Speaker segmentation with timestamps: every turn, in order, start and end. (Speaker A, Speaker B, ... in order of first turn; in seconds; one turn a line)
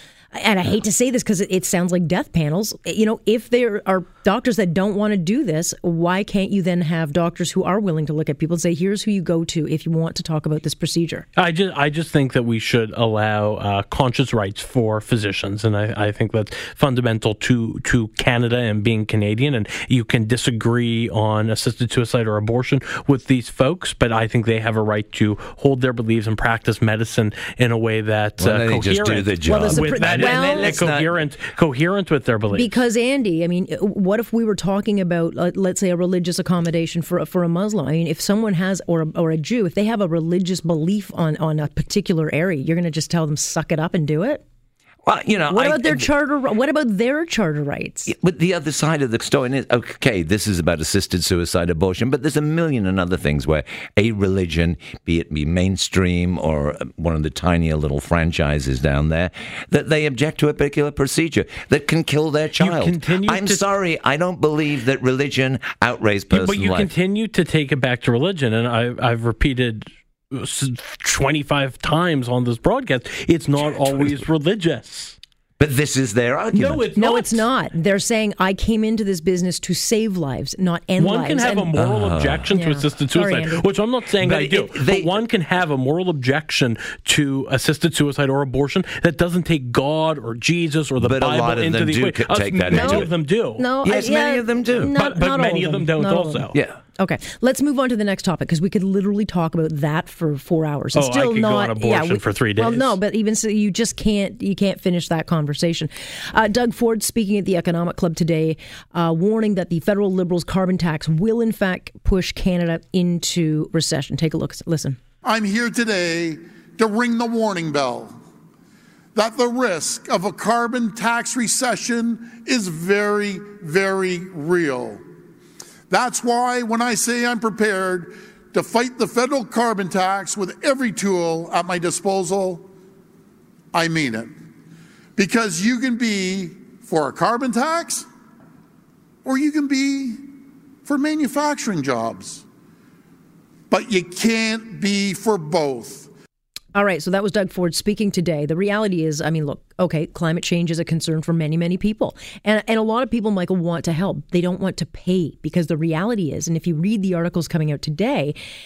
Speaker A: 0.3-11.2
Speaker B: 11.3-32.7
Speaker C: 28.4-31.1
Speaker A: 29.5-30.8
Speaker A: 32.5-44.4
Speaker C: 45.0-46.1
Speaker A: 45.5-48.1
Speaker C: 48.0-66.9
Speaker B: 62.6-63.6
Speaker B: 66.3-75.2
Speaker C: 75.6-76.9
Speaker B: 76.5-77.5
Speaker A: 76.9-81.7
Speaker B: 81.0-93.7
Speaker C: 81.7-82.5
Speaker A: 82.5-83.7
Speaker C: 84.2-85.1
Speaker C: 91.0-93.1
Speaker A: 92.7-115.0
Speaker C: 93.8-94.9
Speaker B: 95.0-96.6
Speaker B: 100.9-103.0
Speaker D: 115.2-118.2
Speaker D: 119.1-125.0
Speaker D: 125.9-132.7
Speaker D: 133.7-134.3
Speaker D: 135.2-138.1
Speaker D: 139.2-140.2
Speaker D: 140.8-142.4
Speaker D: 143.7-146.1
Speaker A: 146.7-158.3